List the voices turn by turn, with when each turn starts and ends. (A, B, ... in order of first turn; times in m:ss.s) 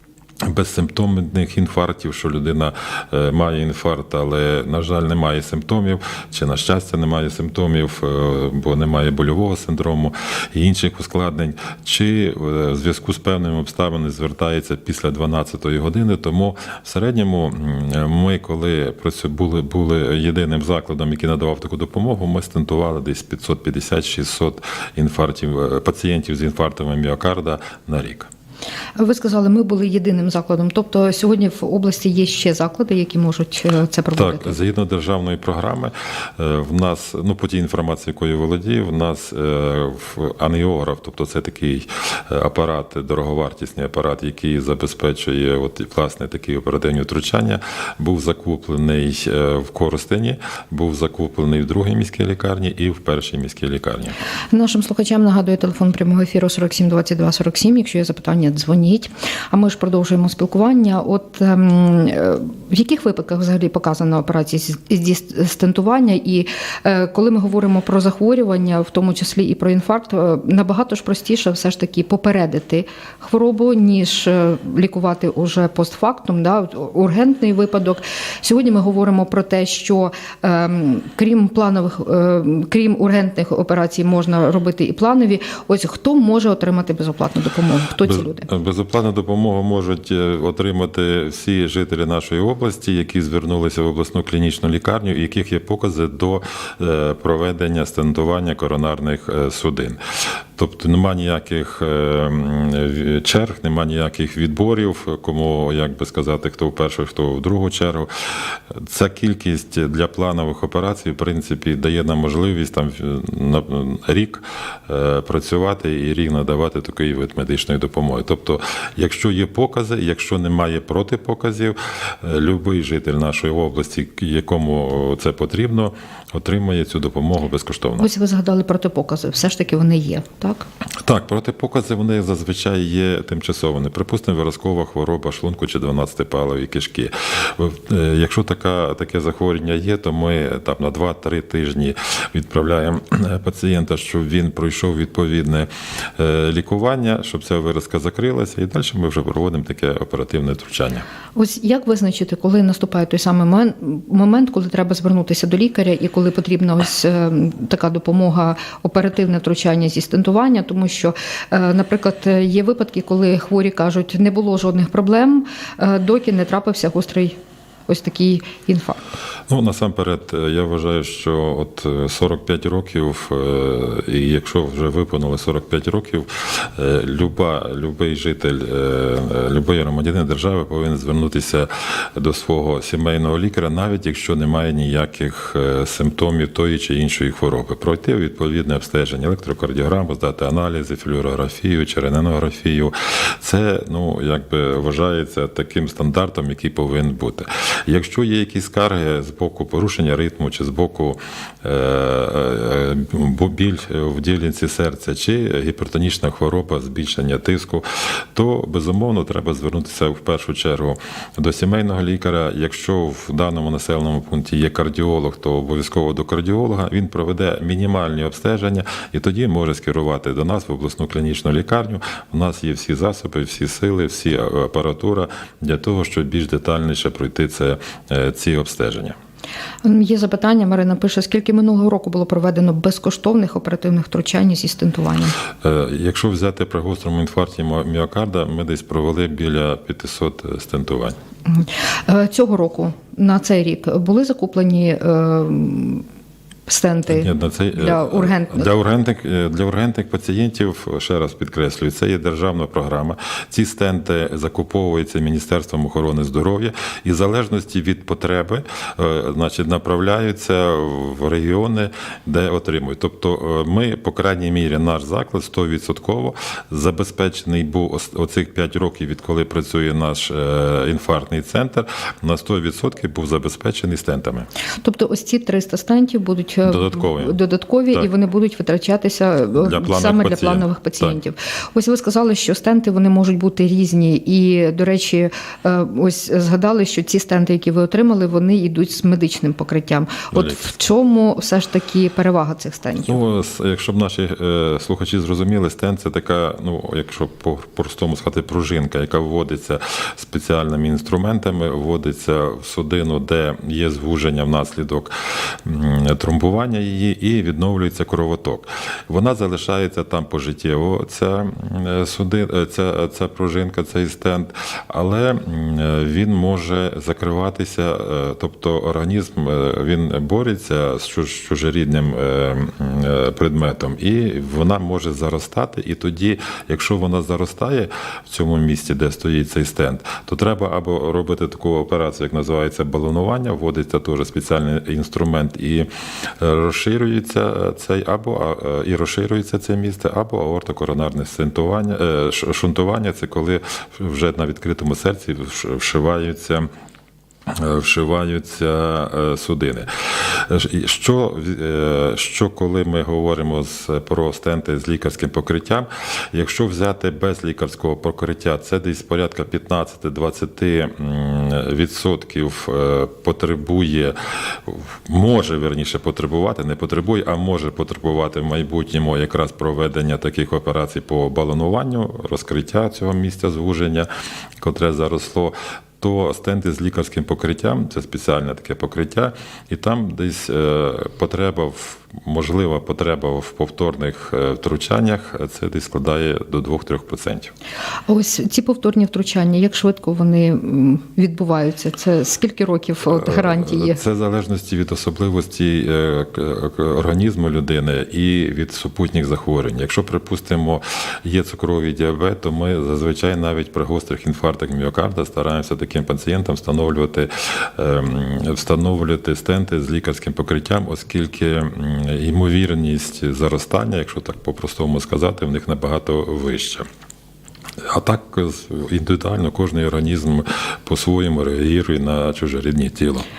0:00.4-0:28.3 A
0:29.0-0:34.5 B
0:34.1-0:54.2 A
0:54.5-1:28.5 B
1:28.0-1:40.0 A
1:40.5-1:48.1 A
1:48.7-2:08.1 A
2:08.0-2:10.7 B
2:11.0-2:31.0 A
2:31.3-2:49.0 B
2:49.5-3:49.1 A
3:49.8-3:55.4 B
3:55.6-4:01.2 A
4:01.5-4:06.0 B
4:06.7-4:08.7 B
4:07.1-4:34.5 A
4:34.8-4:53.2 B
4:36.6-4:37.4 A
4:39.6-4:41.2 A
4:50.3-4:50.7 A
4:53.0-5:35.9 A
5:36.4-5:46.7 A
5:47.5-6:14.1 A
6:14.6-6:27.5 A
6:28.1-6:34.0 B
6:33.1-6:56.8 A
6:57.8-7:03.2 A